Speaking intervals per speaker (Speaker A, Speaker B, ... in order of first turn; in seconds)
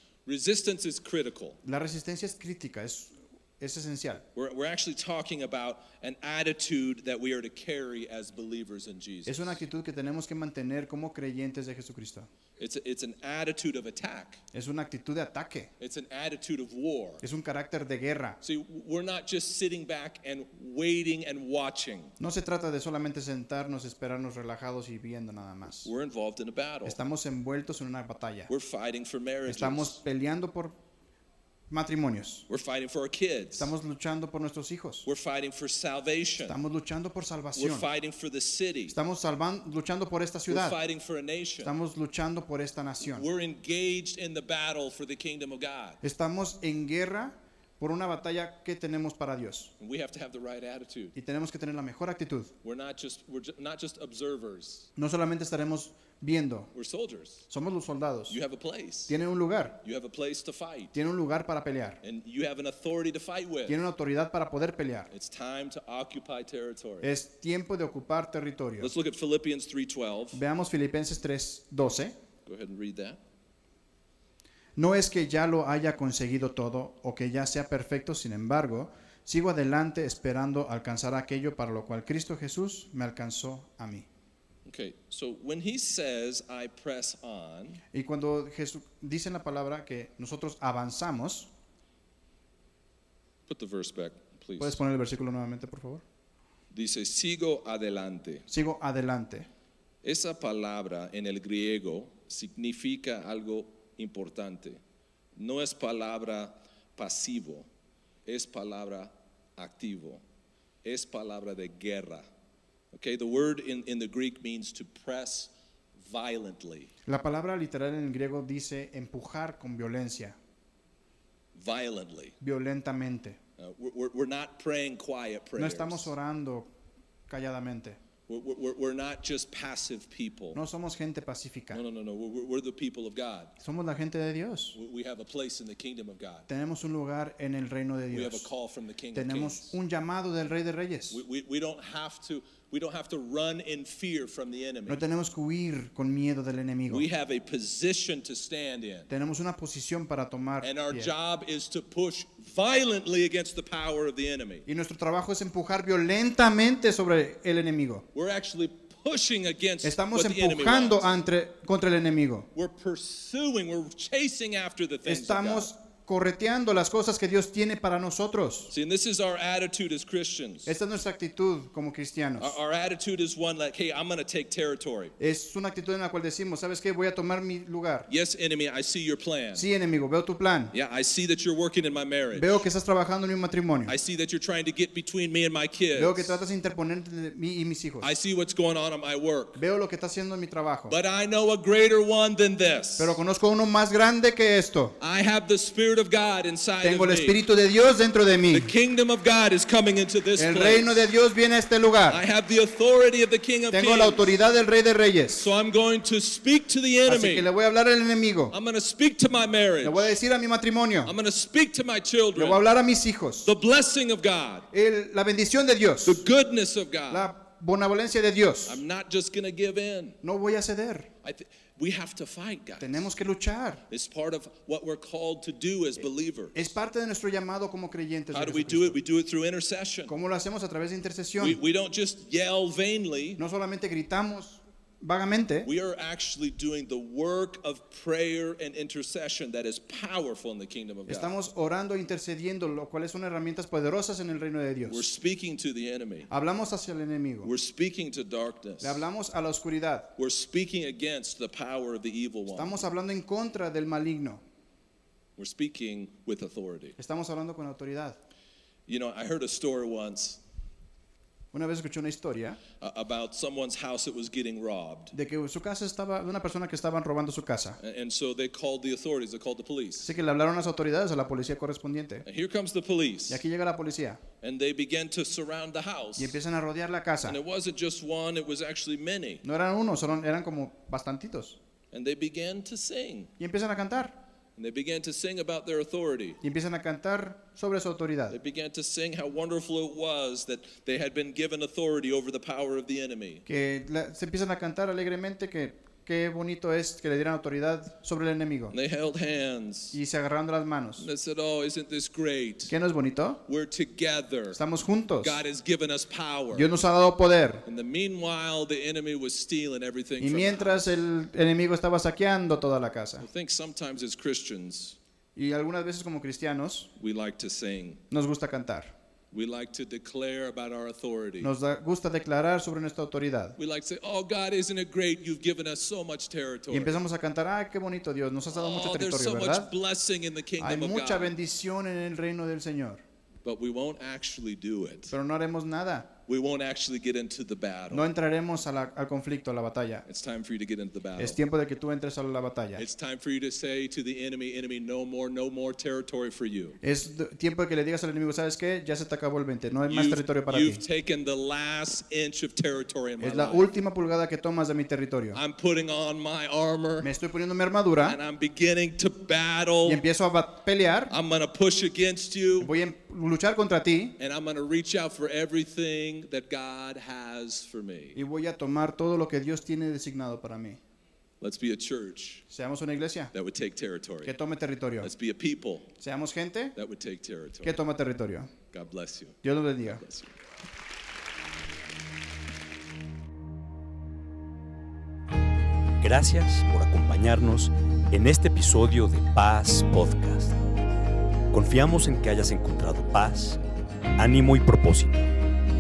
Speaker A: 0.3-1.6, 4.3-9.6, 12.6-14.4, 15.8-17.2, 18.4-22.2, 25.8-27.0, 28.5-30.0, 32.5-33.7, 35.0-36.6, 37.5-39.0, 40.5-41.7, 43.0-46.0, 49.8-51.1, 52.6-54.9, 56.7-57.5, 58.3-59.2, 59.8-61.0, 62.0-63.8, 65.1-67.1, 68.8-70.4, 72.5-73.2, 84.7-87.8, 93.5-94.8, 96.7-98.5, 100.0-104.8, 105.4-107.7, 108.3-110.2, 110.8-112.3, 112.9-116.9, 121.5-122.4, 123.6-126.1, 128.3-130.6, 131.7-133.5, 134.7-136.5, 138.1-139.8, 141.1-145.0, 146.9-149.1, 150.6-154.7, 158.1-161.1, 162.6-165.7, 168.7-170.7, 172.4-175.2, 178.1-179.7, 180.7-182.7, 183.9-186.4, 188.0-189.6, 190.9-193.2, 195.0-197.4, 198.5-201.1, 202.1-204.3, 205.4-207.5, 208.5-210.2, 211.1-212.6, 213.4-214.7, 216.0-217.3, 218.7-220.2, 221.2-223.1, 223.9-226.6, 228.3-230.1, 231.4-233.4, 235.6-241.3, 244.9-246.3, 247.4-249.0, 250.2-252.8, 255.4-257.0, 258.9-260.4, 262.8-265.1, 267.8-270.1, 272.2-273.4, 274.4-276.4, 277.2-279.4, 281.9-283.3, 284.6-286.4, 288.3-293.5, 298.7-300.0, 301.0-302.7, 303.4-304.6, 305.2-306.7, 307.6-310.9, 313.2-315.0, 317.0-318.0, 319.3-321.5, 323.6-327.0, 328.5-331.4, 333.4-335.1, 336.3-338.1, 340.1-341.4, 342.8-346.8, 349.9-353.7, 355.3-357.1, 358.0-360.0, 361.1-362.7, 364.2-368.2, 371.4-372.4, 373.3-374.3, 375.0-375.9, 376.8-377.8, 378.7-379.4, 379.9-380.3
Speaker B: 1.6-4.2, 9.3-12.3, 14.5-15.7, 17.2-18.4, 22.2-25.9, 26.9-28.5, 29.5-30.8, 31.7-32.5, 33.6-35.1, 36.5-37.9, 38.9-40.8, 41.6-43.3, 46.0-49.7, 51.1-52.5, 55.0-56.7, 57.5-58.4, 59.1-59.8, 60.9-62.0, 63.7-65.1, 67.0-68.9, 70.3-72.2, 74.8-84.1, 87.9-91.5, 94.6-96.0, 98.5-99.5, 117.1-120.4, 122.4-123.4, 125.6-126.7, 127.3-128.0, 130.5-131.8, 133.6-134.8, 136.5-138.5, 139.1-141.2, 144.9-147.1, 149.1-151.1, 154.7-158.1, 159.8-162.5, 165.1-168.7, 170.7-172.6, 175.2-178.1, 179.5-180.7, 182.3-184.0, 185.9-188.1, 189.6-191.0, 193.0-195.0, 196.8-198.7, 200.4-202.2, 203.7-205.5, 207.1-208.6, 209.8-211.1, 212.3-213.5, 214.7-216.2, 217.1-218.8, 220.2-221.1, 222.8-223.8, 226.6-229.0, 230.1-231.6, 233.4-235.7, 241.1-245.1, 246.3-247.5, 248.8-250.2, 252.5-254.4, 257.0-258.2, 261.5-262.6, 265.1-267.8, 270.0-272.2, 273.3-274.2, 276.2-277.4, 279.4-281.6, 283.4-284.2, 286.4-288.4, 293.5-298.8, 299.9-301.1, 302.7-303.4, 304.5-305.4, 306.5-307.7, 310.2-313.3, 315.4-316.9, 318.1-318.9, 321.4-323.6, 326.7-329.7, 330.6-333.0, 335.1-336.1, 337.9-340.1, 341.2-342.9, 346.8-350.8, 353.2-355.4, 357.0-358.2, 359.8-361.1, 362.6-364.2, 368.1-370.8, 372.5-373.3, 374.2-375.1, 376.0-376.8, 377.6-378.5, 379.4-380.1
Speaker C: 386.0-390.6, 391.5-393.6, 394.2-395.3